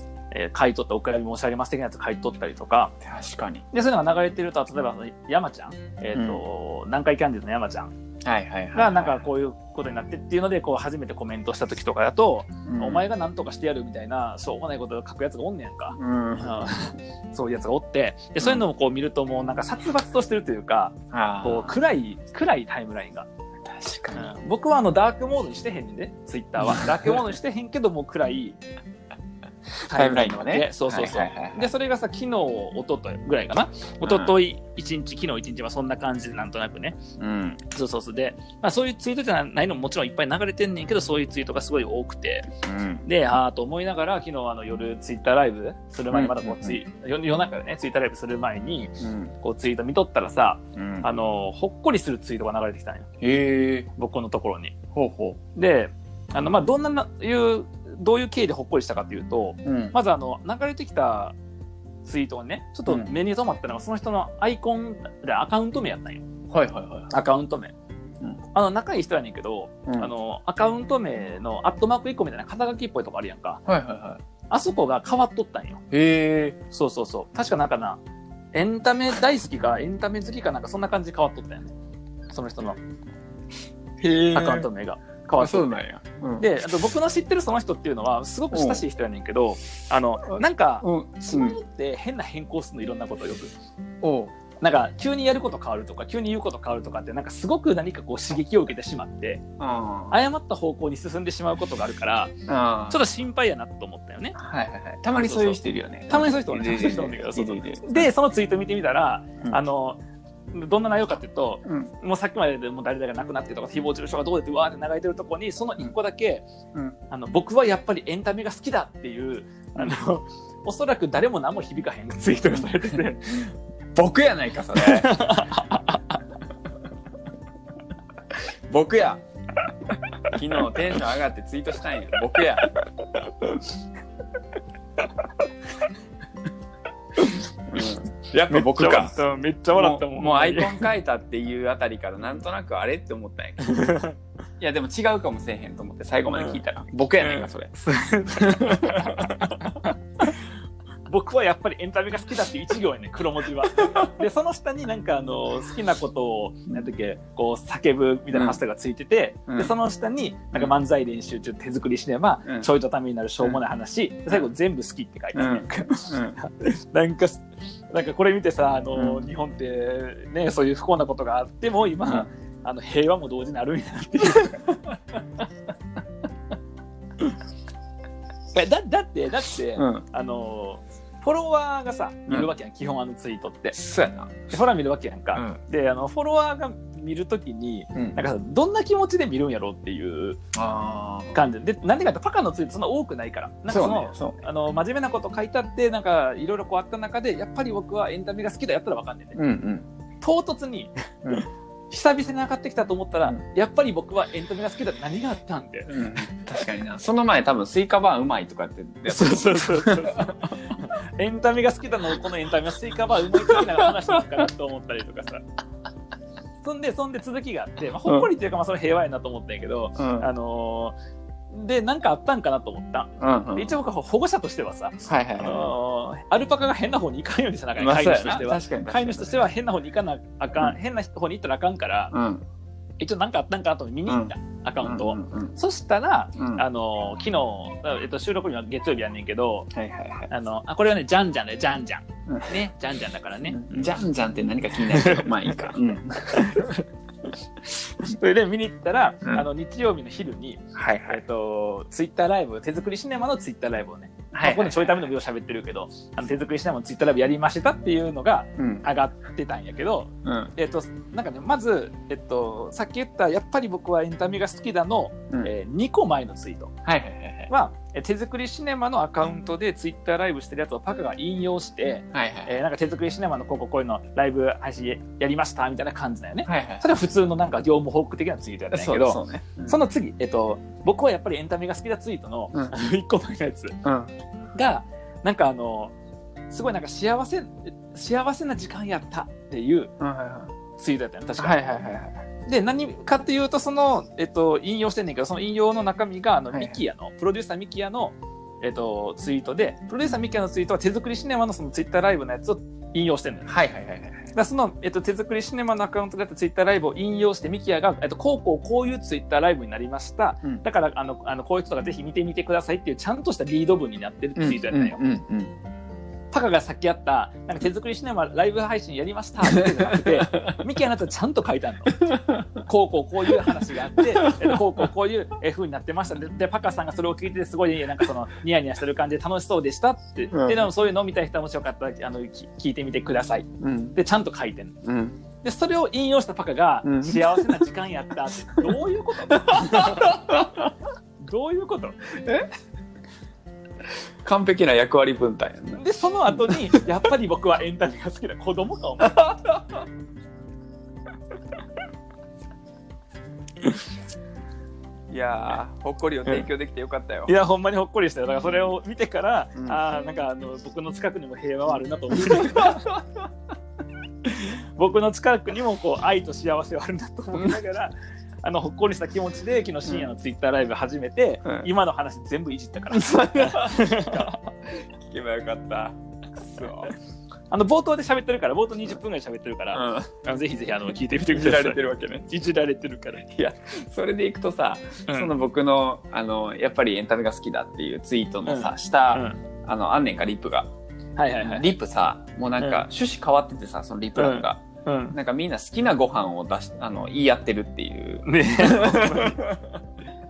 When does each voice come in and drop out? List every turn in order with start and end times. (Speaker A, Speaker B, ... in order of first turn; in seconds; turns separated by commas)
Speaker A: 0.3-3.0, Speaker B: 3.0-3.6, Speaker A: 3.7-7.9, Speaker B: 6.1-6.4, Speaker B: 8.2-9.2, Speaker A: 8.7-23.3, Speaker B: 12.7-13.1, Speaker B: 16.0-16.7, Speaker B: 18.4-18.6, Speaker B: 21.1-21.8, Speaker B: 23.7-24.3, Speaker A: 24.2-28.6, Speaker A: 29.9-37.0, Speaker B: 29.9-31.7, Speaker B: 34.0-34.4, Speaker B: 37.2-37.6, Speaker A: 37.7-42.5, Speaker B: 42.6-43.1, Speaker A: 43.0-53.1, Speaker B: 46.1-46.8, Speaker B: 49.0-49.3, Speaker B: 50.8-51.1, Speaker B: 53.2-53.9, Speaker A: 54.0-54.8, Speaker B: 54.9-55.4, Speaker A: 55.6-61.4, Speaker B: 59.6-60.0, Speaker A: 62.0-66.2, Speaker B: 62.9-63.1, Speaker B: 66.5-67.1, Speaker A: 67.1-67.7, Speaker A: 68.5-73.6, Speaker B: 73.7-74.2, Speaker A: 74.5-75.8, Speaker B: 75.9-76.6, Speaker A: 76.7-78.0, Speaker A: 78.5-81.7, Speaker A: 82.3-82.8, Speaker B: 84.0-84.7, Speaker A: 84.3-85.8, Speaker B: 85.4-86.5, Speaker A: 86.4-93.5, Speaker B: 88.5-88.8, Speaker B: 90.3-91.6, Speaker B: 94.0-94.3, Speaker A: 94.6-99.4, Speaker B: 99.6-100.2, Speaker A: 100.1-102.3, Speaker B: 102.5-103.0, Speaker A: 102.9-104.4, Speaker B: 104.4-108.1, Speaker A: 105.2-110.0, Speaker A: 110.5-116.5, Speaker A: 117.1-123.5, Speaker B: 122.5-125.2, Speaker A: 124.8-126.2, Speaker B: 128.7-129.2, Speaker B: 130.2-132.7, Speaker B: 137.7-139.1, Speaker A: 138.5-140.9, Speaker B: 139.7-143.8, Speaker A: 143.6-144.2, Speaker B: 144.6-147.7, Speaker A: 147.2-150.3, Speaker B: 148.4-149.2, Speaker A: 151.1-174.9, Speaker B: 158.3-158.6, Speaker B: 165.3-166.4, Speaker B: 168.9-169.3, Speaker A: 178.5-183.8, Speaker B: 179.8-180.1, Speaker B: 183.7-184.4, Speaker A: 184.5-190.4, Speaker B: 185.3-185.6, Speaker B: 187.9-188.2, Speaker B: 190.5-191.4, Speaker A: 191.3-199.4, Speaker B: 193.7-194.4, Speaker B: 199.4-199.9, Speaker A: 200.2-205.9, Speaker B: 205.9-210.4, Speaker A: 209.1-215.4, Speaker A: 216.6-221.0, Speaker B: 220.0-220.3, Speaker A: 221.5-232.1, Speaker B: 223.2-223.7, Speaker B: 225.0-225.7, Speaker B: 227.8-229.4, Speaker B: 232.1-232.4, Speaker A: 233.0-239.7, Speaker B: 234.1-235.6, Speaker B: 236.4-236.6, Speaker B: 239.7-240.3, Speaker A: 240.3-243.9, Speaker B: 242.3-242.6, Speaker B: 243.4-246.6, Speaker A: 244.9-245.6, Speaker A: 246.3-246.8, Speaker A: 248.0-266.7, Speaker B: 250.8-251.2, Speaker B: 254.3-254.9, Speaker B: 258.6-258.9, Speaker B: 260.2-260.5, Speaker B: 266.9-267.5, Speaker A: 267.5-283.8, Speaker B: 272.1-272.5, Speaker B: 276.4-276.9, Speaker B: 278.7-279.8, Speaker B: 283.8-284.1, Speaker A: 284.6-285.9, Speaker A: 286.5-289.9, Speaker B: 290.0-290.5, Speaker A: 290.8-291.6, Speaker B: 291.4-292.2, Speaker A: 292.5-303.5, Speaker B: 296.5-296.8, Speaker B: 303.5-304.3, Speaker A: 304.4-315.0, Speaker B: 314.4-315.6, Speaker A: 316.3-334.8, Speaker B: 320.1-320.5, Speaker B: 324.2-324.6, Speaker B: 330.3-330.7, Speaker B: 333.6-334.0, Speaker B: 334.8-335.2, Speaker A: 335.4-340.2, Speaker B: 336.8-337.6, Speaker B: 339.5-340.7, Speaker A: 341.2-342.0, Speaker B: 342.1-342.5, Speaker B: 344.2-346.8, Speaker A: 345.8-349.3, Speaker B: 349.1-349.8, Speaker B: 355.1-357.3, Speaker A: 357.3-362.8, Speaker B: 362.2-363.0, Speaker A: 364.3-374.5, Speaker B: 372.9-376.9, Speaker A: 377.5-383.2, Speaker B: 379.7-380.1, Speaker B: 381.3-382.2, Speaker B: 383.3-390.7, Speaker A: 388.5-389.4, Speaker A: 391.2-391.7, Speaker B: 391.3-399.6, Speaker A: 392.6-392.9, Speaker A: 394.2-395.2, Speaker A: 398.3-399.4